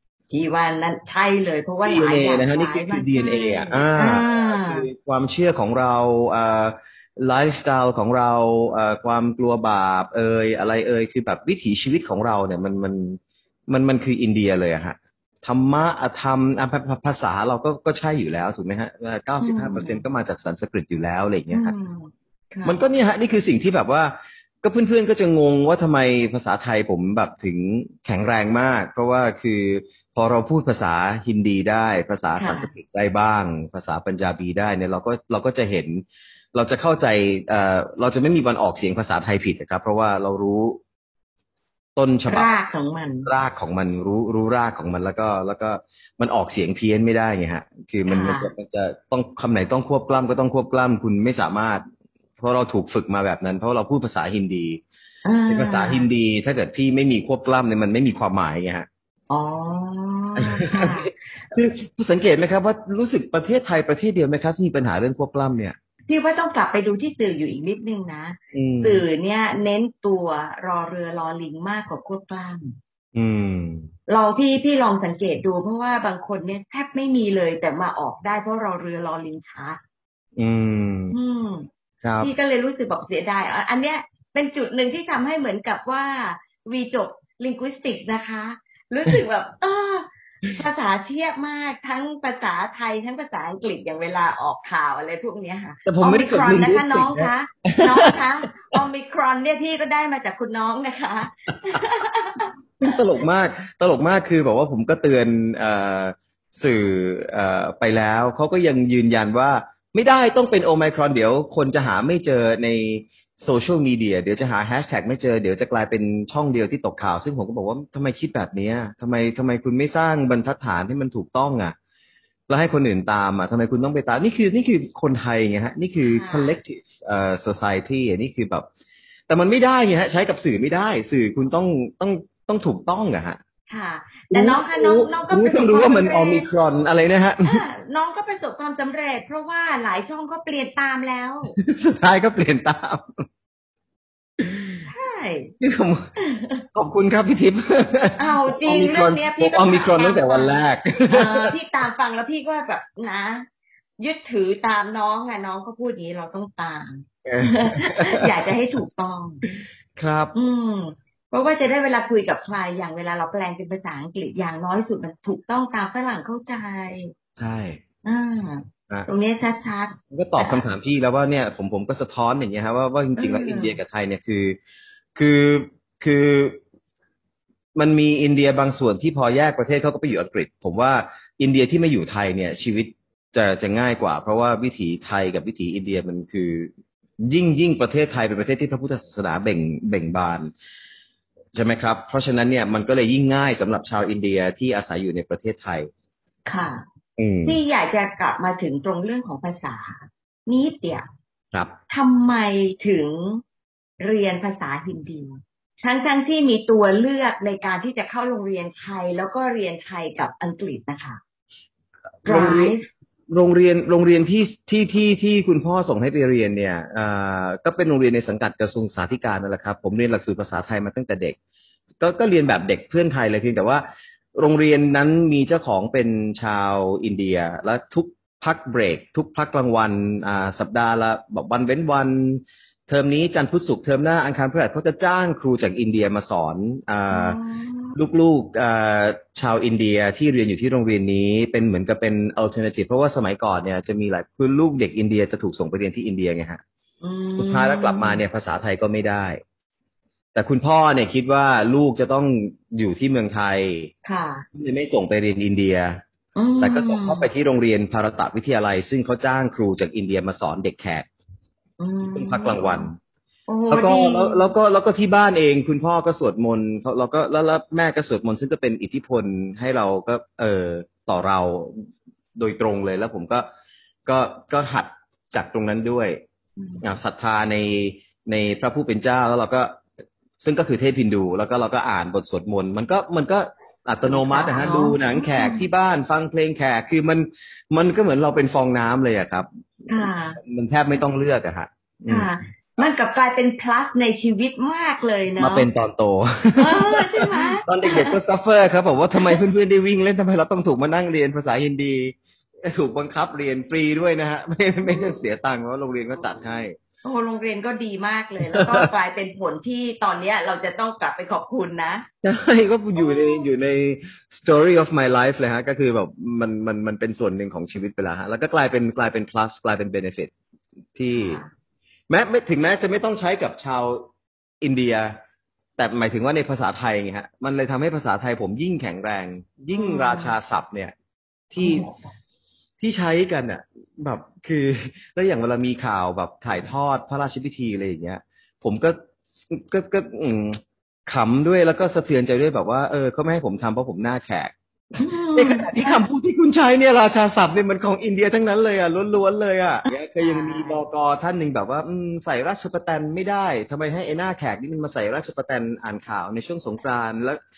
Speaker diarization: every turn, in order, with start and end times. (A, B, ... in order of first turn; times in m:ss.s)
0:00.3-0:04.9 A
0:01.8-0:21.8 B
0:19.4-0:20.0 A
0:21.5-0:22.8 A
0:22.6-0:36.0 B
0:32.4-0:32.7 A
0:36.6-0:40.8 B
0:42.0-0:42.5 B
0:42.3-0:43.3 A
0:43.2-0:51.8 B
0:48.1-0:48.5 A
0:52.4-0:54.8 B
0:55.2-0:56.1 A
0:55.5-0:58.9 B
0:59.3-1:01.1 A
1:00.4-1:05.8 B
1:06.1-1:12.8 A
1:08.5-1:09.0 B
1:13.1-1:13.9 B
1:14.1-1:19.8 A
1:20.4-1:21.2 B
1:21.1-1:21.7 A
1:22.0-1:22.3 B
1:22.2-1:43.0 A
1:35.9-1:38.2 B
1:42.8-2:01.8 B
2:02.5-2:08.7 B
2:06.0-2:06.6 A
2:09.3-2:13.4 B
2:13.7-2:16.5 A
2:14.3-2:17.6 B
2:17.4-2:21.6 A
2:21.6-2:23.1 B
2:24.4-2:24.9 B
2:24.9-2:25.5 A
2:25.6-2:26.1 B
2:26.2-2:26.6 A
2:26.7-2:31.6 B
2:28.2-2:33.5 A
2:34.0-2:39.4 A
2:37.2-2:38.3 B
2:40.0-2:40.4 B
2:40.4-2:47.1 A
2:47.4-2:47.8 B
2:48.1-2:50.6 A
2:50.1-2:54.6 B
2:53.2-2:53.8 A
2:55.2-2:56.6 B
2:57.8-3:06.7 B
3:07.2-3:10.5 B
3:11.5-3:15.9 B
3:16.5-3:16.8 A
3:17.2-3:17.6 B
3:17.4-3:21.0 A
3:21.9-3:23.4 A
3:24.0-3:31.2 A
3:32.2-3:32.8 B
3:32.2-3:32.8 A
3:33.3-3:41.4 B
3:42.0-3:43.8 B
3:44.4-3:57.4 B
3:57.1-3:58.0 A
3:58.0-4:06.6 B
4:07.0-4:08.2 A
4:07.4-4:09.4 B
4:10.4-4:13.9 B
4:14.0-4:14.5 A
4:14.6-4:16.0 B
4:16.4-4:17.3 A
4:16.6-4:21.1 B
4:21.8-4:22.9 A
4:22.1-4:23.0 B
4:23.5-4:24.5 A
4:23.7-4:33.5 B
4:34.1-4:36.2 B
4:36.6-4:36.8 A
4:36.8-4:39.8 B
4:40.4-4:52.3 B
4:44.1-4:45.7 A
4:49.9-4:50.4 A
4:52.1-4:55.7 A
4:55.4-5:06.8 B
4:56.6-4:58.2 A
5:04.8-5:05.2 A
5:07.0-5:12.1 A
5:08.5-5:08.9 B
5:12.2-5:20.3 B
5:13.0-5:13.5 A
5:21.0-5:21.4 B
5:21.1-5:21.5 A
5:22.1-5:24.1 B
5:24.6-5:25.2 B
5:25.8-5:30.9 B
5:29.7-5:30.4 A
5:31.5-5:31.9 B
5:31.6-5:31.9 A
5:32.8-5:57.4 B
5:45.0-5:46.1 A
5:50.2-5:50.8 A